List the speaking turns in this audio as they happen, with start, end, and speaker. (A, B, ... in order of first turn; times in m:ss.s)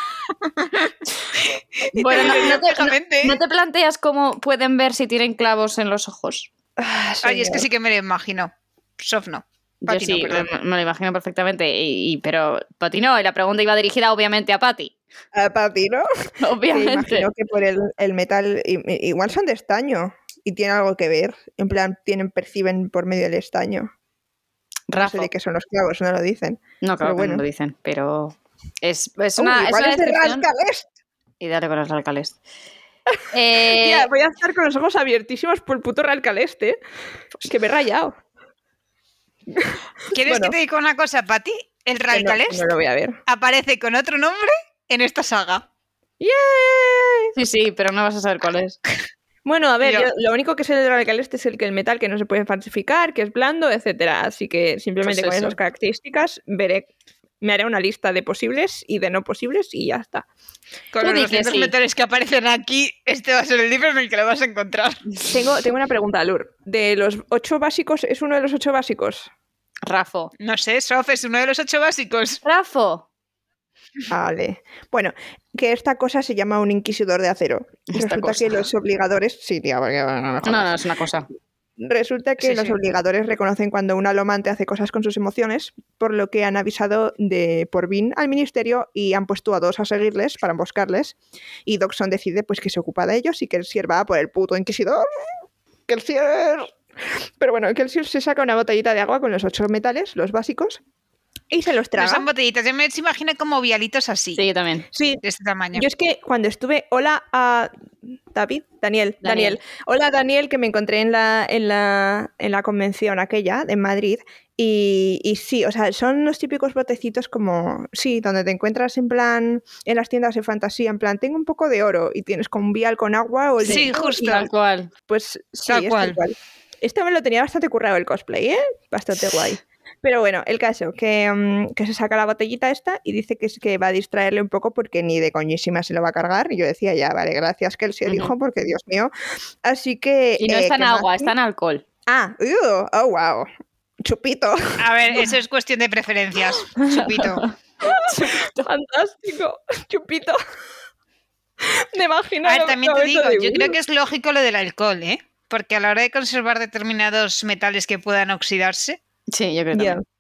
0:00.4-0:03.4 A
0:01.9-0:06.5 B
0:02.0-0:02.6 C
0:06.8-0:07.6 C
0:07.2-0:10.5 A
0:09.8-0:14.9 B
0:15.3-0:16.1 C
0:16.4-0:17.3 B
0:16.7-0:23.9 C
0:24.9-0:25.3 B
0:25.0-0:27.4 C
0:26.8-0:30.4 B
0:29.4-0:30.9 C
0:31.4-0:32.4 B
0:33.1-0:36.8 C
0:33.3-0:34.1 B
0:37.4-0:38.1 C
0:39.5-0:40.6 C
0:40.1-0:42.7 A
0:42.1-0:43.2 C
0:43.3-0:45.6 A
0:46.2-0:47.3 C
0:47.4-0:48.8 B
0:49.4-0:56.9 C
0:49.8-0:50.1 A
0:55.0-0:55.6 B
0:57.4-1:00.3 C
1:00.9-1:05.2 A
1:01.0-1:01.7 B
1:05.3-1:09.3 C
1:09.9-1:10.3 B
1:10.4-1:12.4 A
1:12.4-1:13.0 B
1:14.1-1:20.8 C
1:17.9-1:18.7 B
1:20.4-1:21.3 B
1:21.8-1:35.3 C
1:22.4-1:22.7 A
1:35.9-1:40.8 C
1:41.5-1:42.3 C
1:42.0-1:44.4 A
1:44.4-1:44.9 B
1:44.9-1:45.2 C
1:45.2-1:45.9 A
1:45.7-1:47.7 C
1:48.3-2:04.4 C
1:49.2-1:49.6 B
2:03.6-2:04.5 A
2:03.6-2:04.9 B
2:05.1-2:19.1 C
2:05.7-2:06.2 A
2:18.0-2:18.3 B
2:19.6-2:21.3 C
2:20.4-2:21.8 B
2:22.1-2:23.5 C
2:24.0-2:25.2 C
2:24.8-2:27.5 A
2:26.8-2:28.7 B
2:27.8-2:30.4 C
2:31.6-2:33.8 C
2:32.4-2:39.0 A
2:39.3-2:40.0 B
2:39.7-2:40.0 C